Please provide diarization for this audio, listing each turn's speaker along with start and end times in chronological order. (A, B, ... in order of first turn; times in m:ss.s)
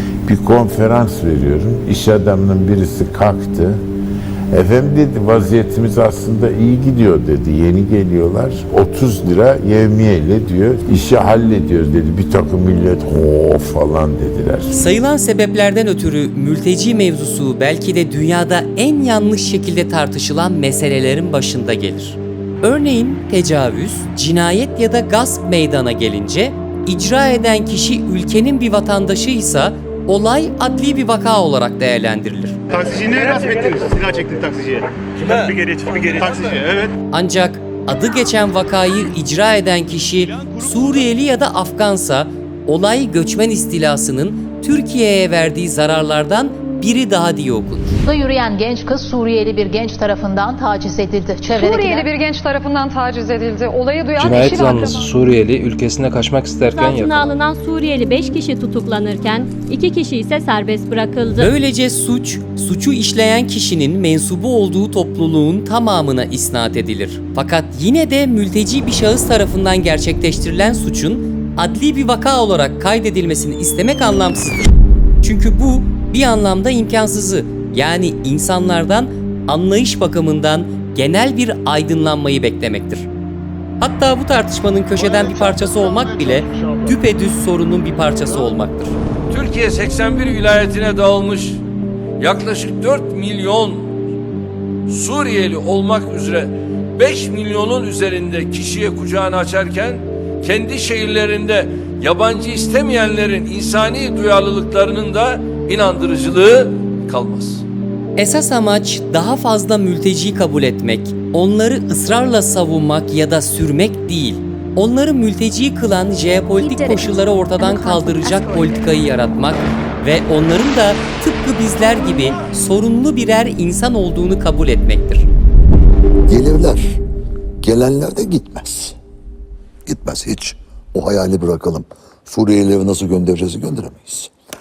0:00.3-0:03.8 A
0:04.5-0:14.8 A
0:14.7-0:32.6 B
0:32.7-0:36.9 C
0:37.1-0:48.0 B
0:48.0-0:52.1 D
0:51.5-0:55.0 E
0:54.2-0:57.4 F
0:56.7-1:01.5 G
1:01.4-1:23.1 B
1:23.8-1:29.0 B
1:29.3-1:31.6 H
1:32.2-1:34.0 H
1:34.9-1:47.6 H
1:48.2-2:05.3 B
1:56.6-1:58.8 G
2:06.3-2:07.0 I
2:07.6-2:09.0 I
2:09.8-2:14.3 I